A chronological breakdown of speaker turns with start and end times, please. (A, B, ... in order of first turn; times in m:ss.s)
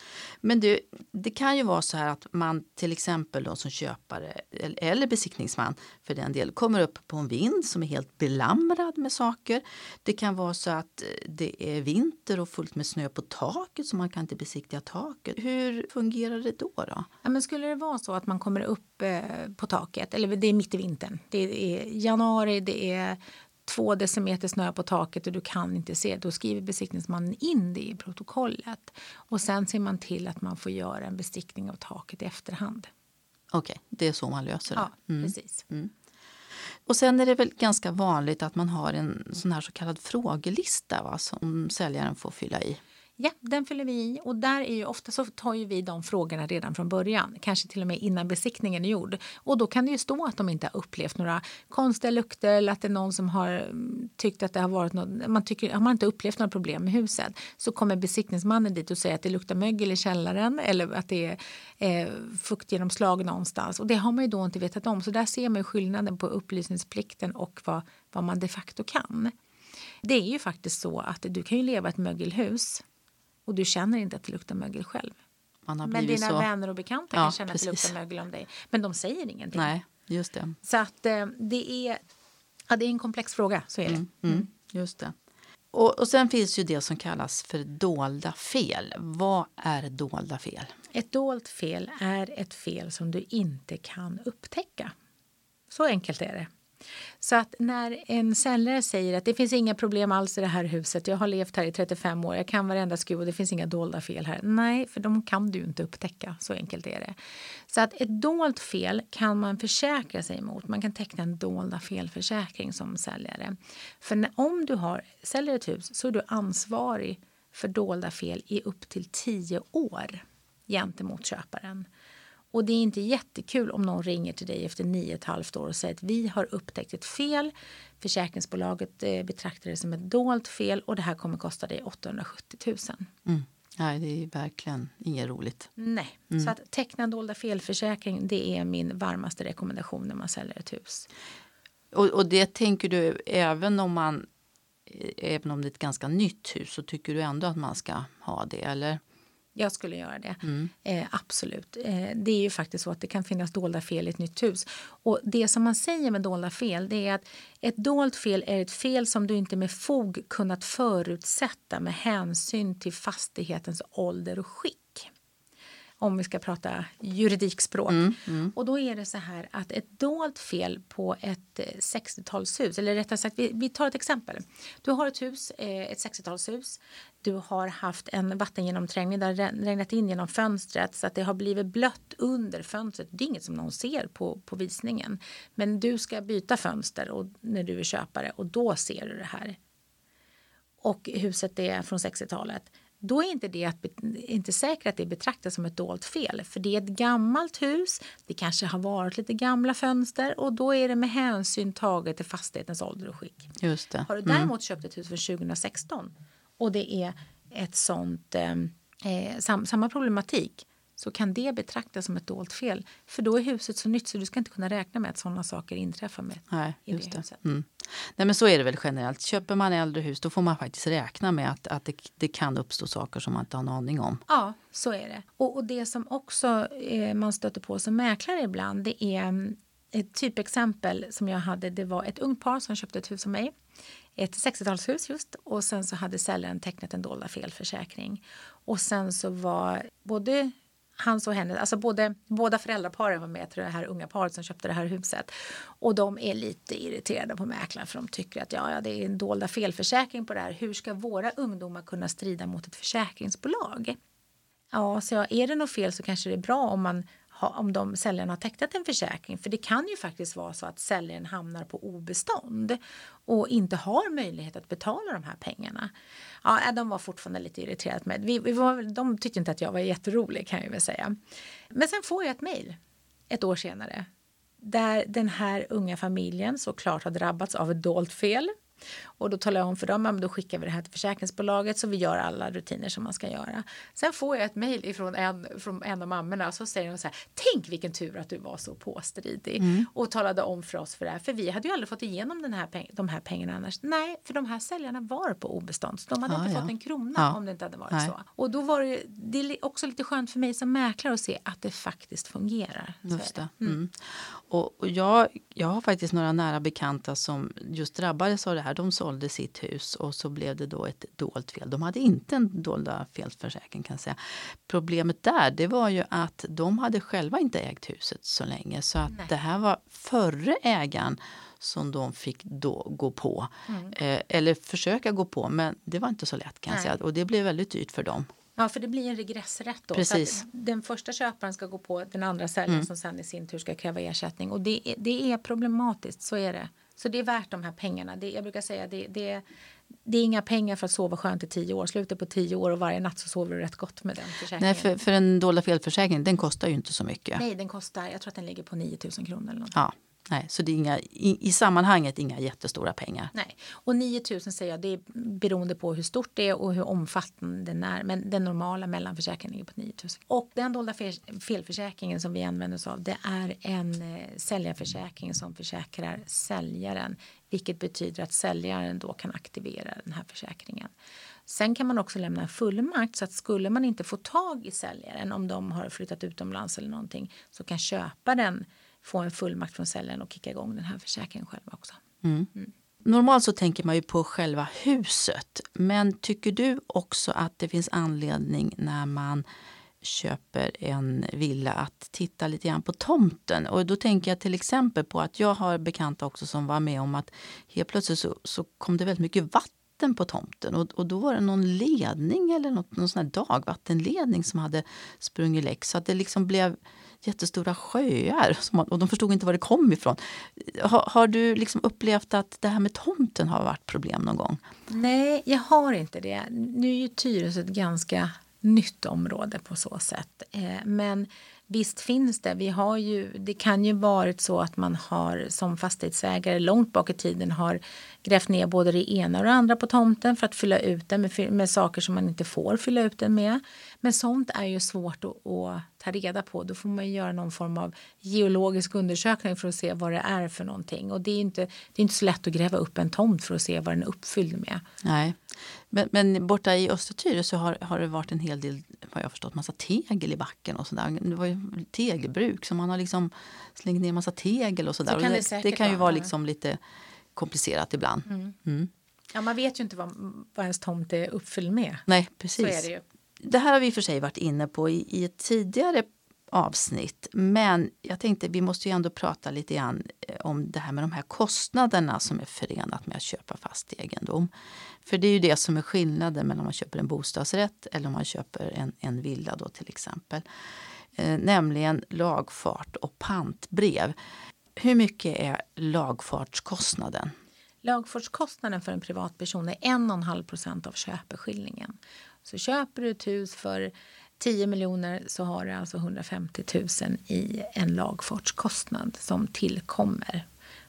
0:00.4-0:17.1 A
0:17.2-0:32.9 B
0:33.5-0:35.9 A
0:34.7-0:35.6 B
0:36.9-0:42.8 A
0:43.2-1:09.3 B
1:10.0-1:12.8 B
1:13.5-1:15.2 B
1:15.6-1:16.5 A
1:15.8-1:19.7 B
1:17.1-1:17.9 A
1:19.5-1:20.6 A
1:20.6-1:22.0 B
1:22.7-1:24.5 B
1:23.9-1:25.1 A
1:25.7-1:30.7 A
1:30.9-1:34.9 B
1:35.7-1:36.5 B
1:37.2-1:47.1 B
1:47.7-2:01.9 B
2:02.5-2:13.1 B
2:13.2-2:15.7 A
2:15.8-2:21.1 B
2:21.9-2:24.2 A
2:24.9-2:29.0 A
2:29.6-2:45.1 B
2:46.0-3:09.6 B
2:47.9-2:48.5 A
3:10.8-3:37.4 B
3:23.6-3:24.5 A
3:36.5-3:44.2 A
3:44.3-3:53.5 B
3:54.2-4:14.0 B
4:14.7-4:25.9 B
4:26.4-4:31.2 B
4:31.7-4:32.8 B
4:33.3-4:34.1 B
4:34.6-4:38.5 B
4:39.2-5:03.8 B
4:49.6-4:49.9 A
4:56.3-4:57.4 A
5:03.1-5:28.3 A
5:23.7-5:23.9 B
5:28.6-5:39.4 B
5:29.9-5:30.4 A
5:40.0-5:44.9 B
5:44.6-5:47.4 A
5:47.4-5:49.8 B
5:49.7-5:53.3 A
5:53.3-6:10.9 B
6:11.5-6:22.0 B
6:22.2-6:22.5 A
6:23.0-6:29.4 A
6:30.0-6:54.6 A
6:54.9-7:24.8 B
7:25.0-7:36.8 A
7:35.0-7:36.3 B
7:37.4-7:38.9 A
7:38.2-7:38.6 B
7:39.3-7:42.0 B
7:42.1-7:42.9 A
7:42.6-7:43.0 B
7:43.4-7:54.5 A
7:55.0-8:00.4 A
8:01.2-8:04.1 A
8:04.8-8:07.3 A
8:07.8-8:20.5 B